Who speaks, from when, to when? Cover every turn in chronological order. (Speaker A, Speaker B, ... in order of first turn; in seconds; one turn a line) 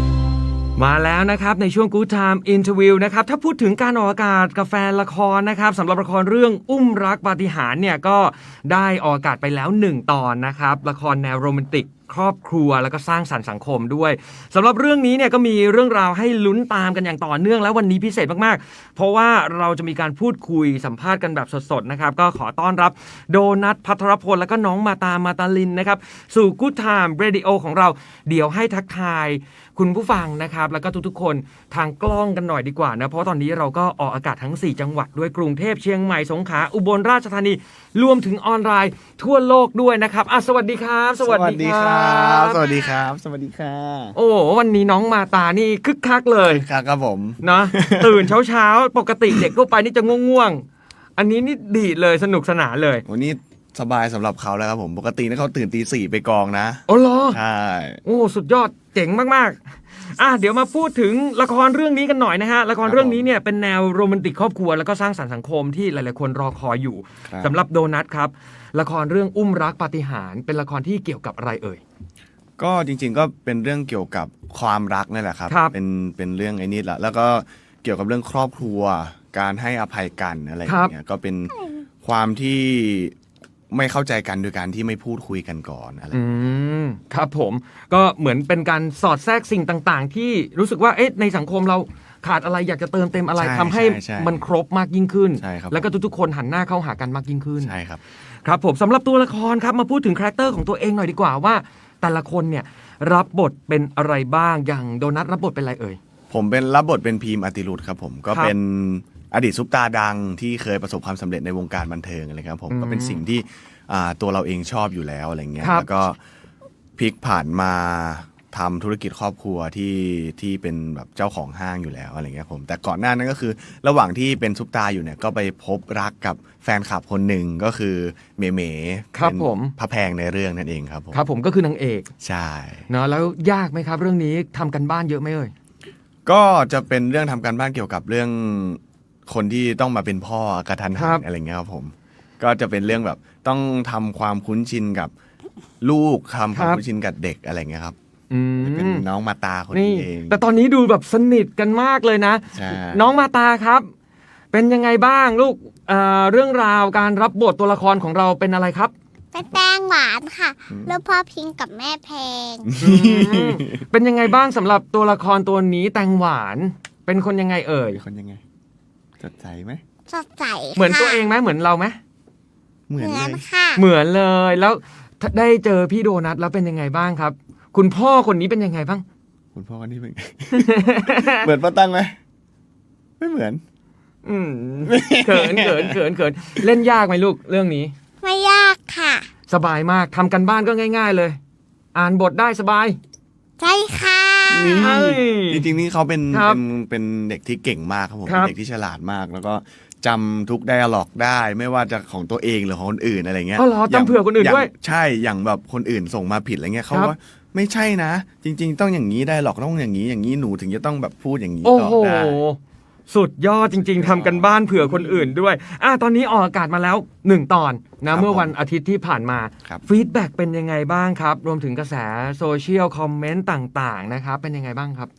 Speaker A: 0.8-42.7
Speaker B: 41.2-44.1
Speaker A: 44.1-46.7
Speaker B: 46.4-48.3
Speaker A: 47.4-50.6
Speaker A: 51.2-53.0
Speaker B: 53.0-58.0
Speaker A: 56.9-57.4
Speaker A: 58.0-59.6
Speaker A: 60.1-71.8
Speaker B: 62.8-63.2
Speaker B: 67.2-67.6
Speaker B: 72.6-83.1
Speaker A: 75.5-75.7
Speaker A: 80.7-80.9
Speaker B: 83.7-86.2
Speaker A: 86.1-97.7
Speaker B: 93.4-94.4
Speaker B: 95.4-95.9
Speaker B: 97.6-98.0
Speaker A: 98.4-106.0
Speaker B: 106.3-116.2
Speaker A: 112.7-113.2
Speaker A: 115.6-115.9
Speaker B: 117.0-131.2
Speaker A: 129.1-129.7
Speaker A: 131.1-132.1
Speaker B: 132.2-132.9
Speaker A: 132.9-135.5
Speaker B: 136.2-145.1
Speaker A: 140.9-141.2
Speaker B: 145.8-147.9
Speaker A: 146.5-146.8
Speaker A: 148.3-149.0
Speaker B: 148.6-150.4
Speaker A: 149.7-153.9
Speaker B: 152.5-153.1
Speaker A: 154.5-158.9
Speaker C: 159.3-162.7
Speaker B: 160.7-160.9
Speaker B: 162.7-163.8
Speaker A: 162.8-168.0
Speaker B: 167.9-168.4
Speaker B: 169.2-169.8
Speaker C: 170.1-171.2
Speaker A: 170.7-172.0
Speaker B: 172.9-173.4
Speaker C: 173.0-173.8
Speaker A: 173.8-179.0
Speaker B: 179.5-182.2
Speaker A: 180.5-181.5
Speaker B: 183.2-183.6
Speaker A: 184.2-187.9
Speaker B: 184.8-186.0
Speaker C: 188.2-189.3
Speaker A: 189.5-191.4
Speaker A: 191.9-193.0
Speaker C: 193.6-194.8
Speaker B: 194.5-212.4
Speaker A: 194.8-195.6
Speaker A: 196.3-196.6
Speaker A: 198.2-198.5
Speaker A: 203.6-204.7
Speaker A: 211.6-225.1
Speaker B: 213.6-215.3
Speaker B: 218.1-218.5